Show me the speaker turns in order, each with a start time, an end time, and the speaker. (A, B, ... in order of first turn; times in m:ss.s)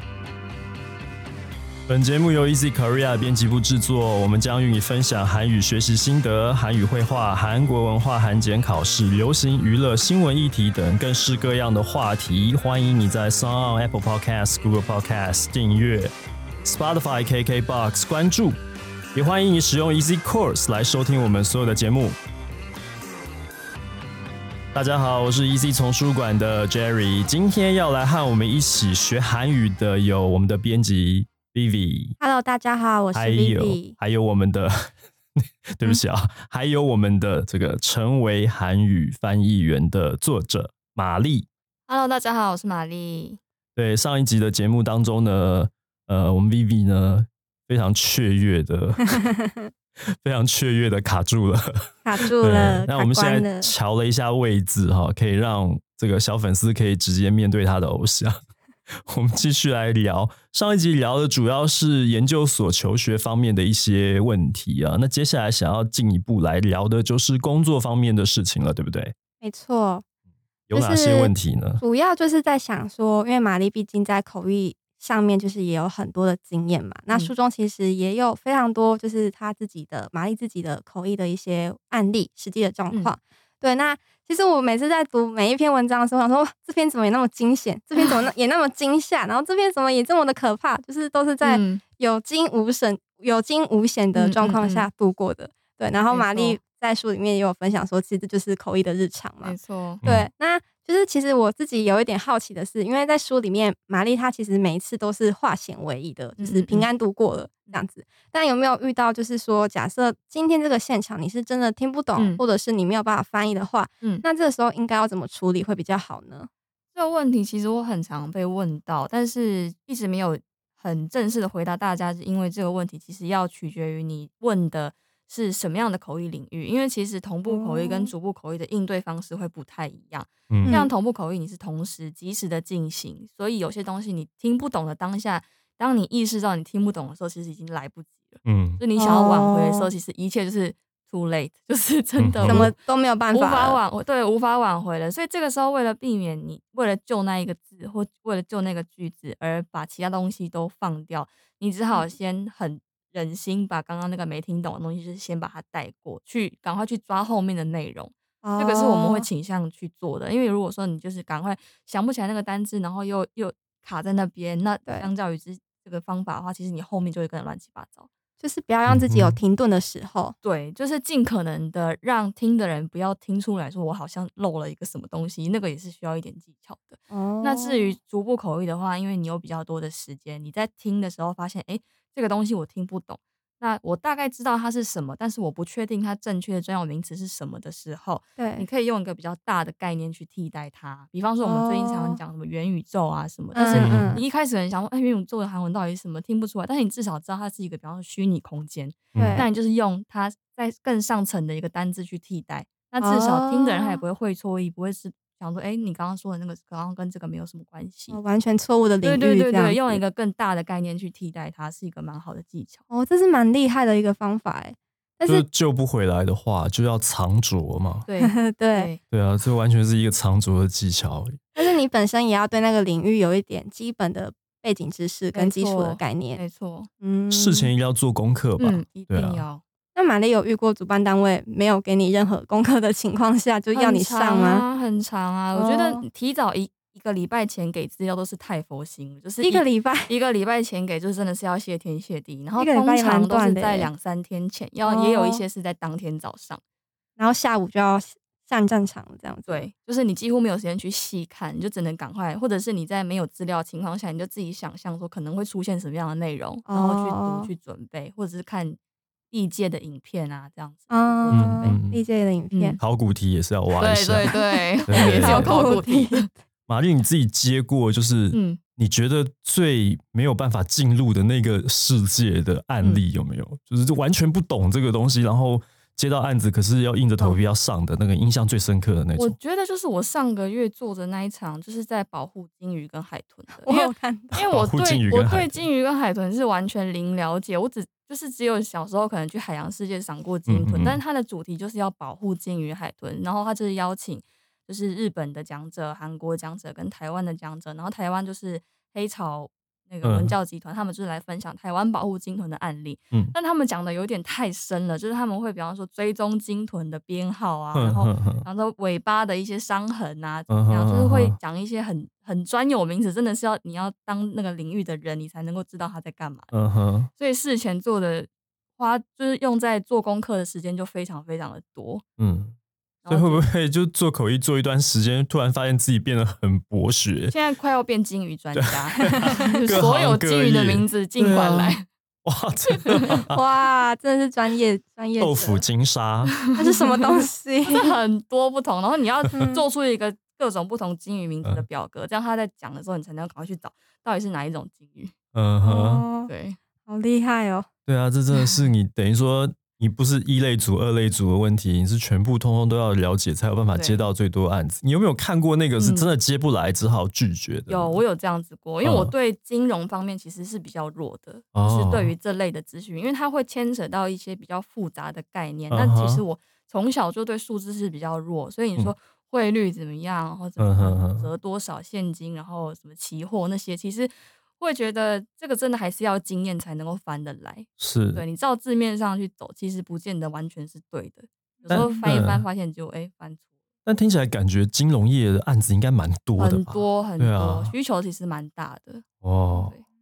0:01.9-0:16.1 A
0:16.6-0:18.6 A
0:19.1-0:22.2 A
0:24.7-0:32.2 A
0:32.2-0:34.0 B
0:33.1-0:41.5 A
0:41.9-0:43.4 C
0:43.8-0:49.2 A
0:50.2-0:58.4 A
0:52.0-0:53.7 B
0:59.1-1:09.1 A
1:09.4-1:10.0 B
1:10.7-1:11.8 A
1:10.7-1:56.5 B
1:28.0-1:28.2 C
1:31.4-1:31.8 C
1:34.1-1:34.9 C
1:36.1-1:36.6 C
1:39.4-1:40.0 C
1:40.0-1:40.3 A
1:46.4-1:46.9 C
1:52.2-1:52.4 C
1:56.9-2:22.8 C
2:07.5-2:08.1 B
2:10.6-2:10.9 B
2:18.4-2:18.8 A
2:19.0-2:19.9 B
2:22.2-2:22.7 A
2:22.4-2:23.8 B
2:23.3-2:48.1 C
2:38.4-2:39.3 B
2:48.4-2:50.4 B
2:48.9-2:49.4 A
2:50.4-3:28.2 C
2:57.1-2:57.9 B
3:08.4-3:08.6 B
3:11.4-3:12.2 B
3:13.5-3:14.2 B
3:13.7-3:14.2 A
3:19.1-3:19.4 A
3:19.2-3:19.5 B
3:23.0-3:24.0 B
3:28.1-3:30.0 B
3:29.0-3:32.8 C
3:32.9-3:35.4 B
3:35.2-3:38.0 A
3:38.0-3:39.0 C
3:38.2-3:38.9 B
3:39.1-3:41.4 A
3:41.5-3:46.4 B
3:45.3-3:46.9 C
3:47.0-3:47.7 B
3:47.3-3:49.4 A
3:48.6-3:49.6 C
3:49.9-3:54.6 B
3:53.7-4:06.6 C
3:55.5-3:56.0 B
3:59.4-4:00.1 B
4:02.6-4:03.9 B
4:04.8-4:05.4 B
4:07.2-4:09.7 B
4:09.4-4:18.8 C
4:16.6-4:17.5 B
4:19.3-4:21.8 C
4:20.9-4:22.8 B
4:21.3-4:22.0 A
4:22.5-4:22.8 C
4:22.8-4:24.3 A
4:23.7-4:26.3 C
4:24.3-4:26.3 B
4:24.9-4:25.6 A
4:26.7-4:39.4 A
4:28.3-4:28.6 C
4:39.2-5:16.5 C
4:43.6-4:44.4 B
4:44.3-4:45.6 A
4:50.5-4:51.0 A
5:00.0-5:00.3 A
5:07.7-5:08.4 A
5:10.5-5:11.4 A
5:16.5-5:17.1 A
5:17.2-5:22.0 C
5:22.2-5:22.5 A
5:23.0-5:23.4 C
5:23.1-5:27.3 A
5:27.3-5:31.8 C
5:28.5-5:33.4 A
5:32.8-5:33.1 C
5:33.3-5:35.6 B
5:35.2-5:36.3 A
5:36.5-5:45.1 C
5:36.5-5:38.0 B
5:39.3-5:39.6 B
5:45.3-5:46.1 A
5:45.6-5:46.3 B
5:46.2-5:46.6 C
5:46.8-5:47.7 B
5:47.8-5:58.0 A
5:53.7-5:54.0 C
5:55.8-5:56.1 C
5:57.7-6:23.4 C
5:58.8-5:59.1 A
6:01.5-6:02.1 A
6:05.7-6:06.2 A
6:10.6-6:11.3 A
6:17.8-6:18.2 A
6:21.6-6:22.1 B
6:21.7-6:22.4 A
6:23.8-6:27.7 A
6:26.4-6:29.8 C
6:29.2-6:29.7 A